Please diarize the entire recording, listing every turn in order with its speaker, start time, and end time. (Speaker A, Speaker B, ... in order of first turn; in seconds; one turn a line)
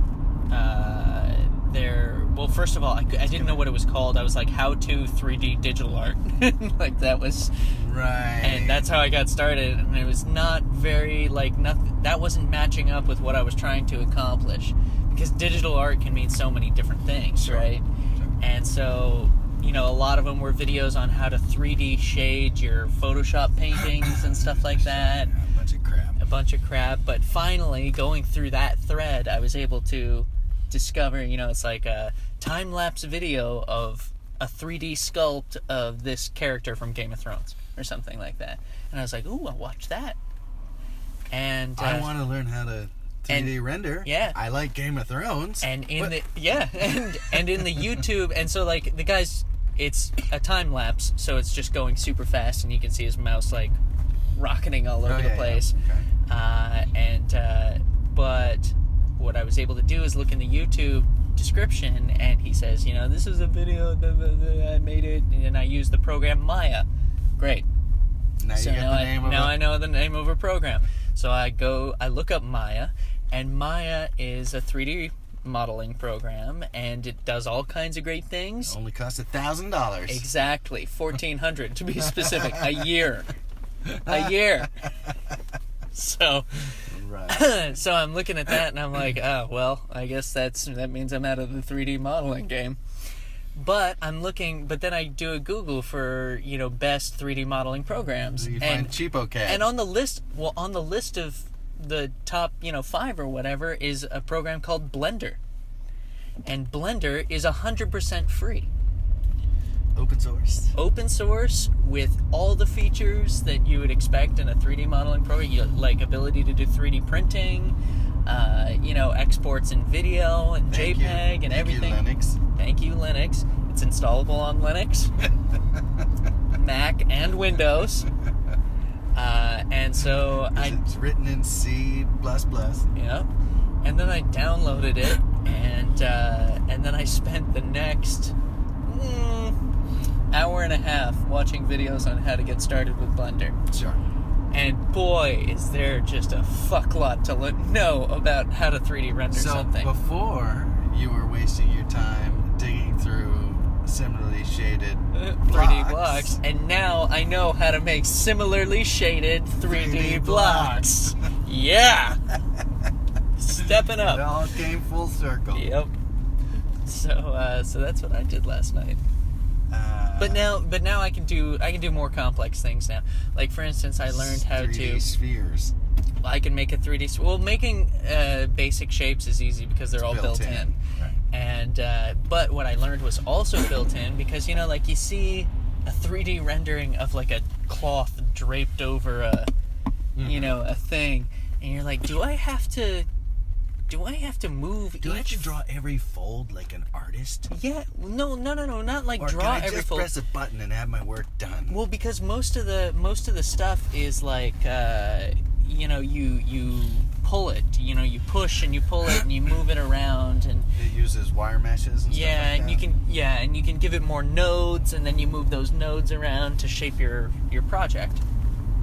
Speaker A: 0.5-7.5
Speaker B: 3.3-3.7
Speaker B: 7.7-8.9
Speaker A: 8.4-17.8
Speaker B: 17.4-18.4
Speaker A: 18.4-25.3
Speaker B: 23.7-26.2
Speaker A: 26.2-40.2
Speaker A: 41.3-42.1
Speaker B: 41.8-46.2
Speaker A: 43.3-44.4
Speaker A: 45.6-53.8
Speaker B: 47.3-48.0
Speaker A: 54.3-55.7
Speaker B: 55.0-56.1
Speaker A: 56.3-66.9
Speaker A: 67.4-67.7
Speaker B: 68.4-69.6
Speaker A: 68.5-78.8
Speaker B: 78.6-80.2
Speaker A: 80.1-83.3
Speaker B: 82.1-82.7
Speaker B: 83.8-84.6
Speaker A: 84.0-84.7
Speaker A: 85.9-92.8
Speaker B: 86.9-87.5
Speaker A: 93.5-105.4
Speaker B: 98.3-99.7
Speaker A: 106.4-108.7
Speaker B: 110.0-110.7
Speaker A: 110.7-125.1
Speaker B: 120.7-122.4
Speaker A: 126.5-128.1
Speaker A: 129.1-130.8
Speaker B: 130.5-132.9
Speaker A: 132.9-133.3
Speaker A: 133.8-139.6
Speaker A: 140.3-143.6
Speaker B: 143.7-144.0
Speaker A: 144.5-149.9
Speaker B: 149.3-156.4
Speaker A: 155.1-162.2
Speaker B: 159.6-161.3
Speaker A: 163.4-164.2
Speaker B: 163.5-165.8
Speaker A: 165.5-165.9
Speaker A: 166.8-169.0
Speaker B: 169.7-170.5
Speaker A: 170.2-175.1
Speaker B: 174.1-175.7
Speaker A: 176.2-180.8
Speaker B: 180.0-181.2
Speaker A: 181.3-189.5
Speaker B: 190.2-190.6
Speaker A: 190.2-193.1
Speaker A: 193.9-195.5
Speaker B: 195.0-197.5
Speaker A: 197.5-200.1
Speaker B: 199.2-201.8
Speaker A: 201.7-210.7
Speaker B: 210.7-212.8
Speaker A: 212.1-218.2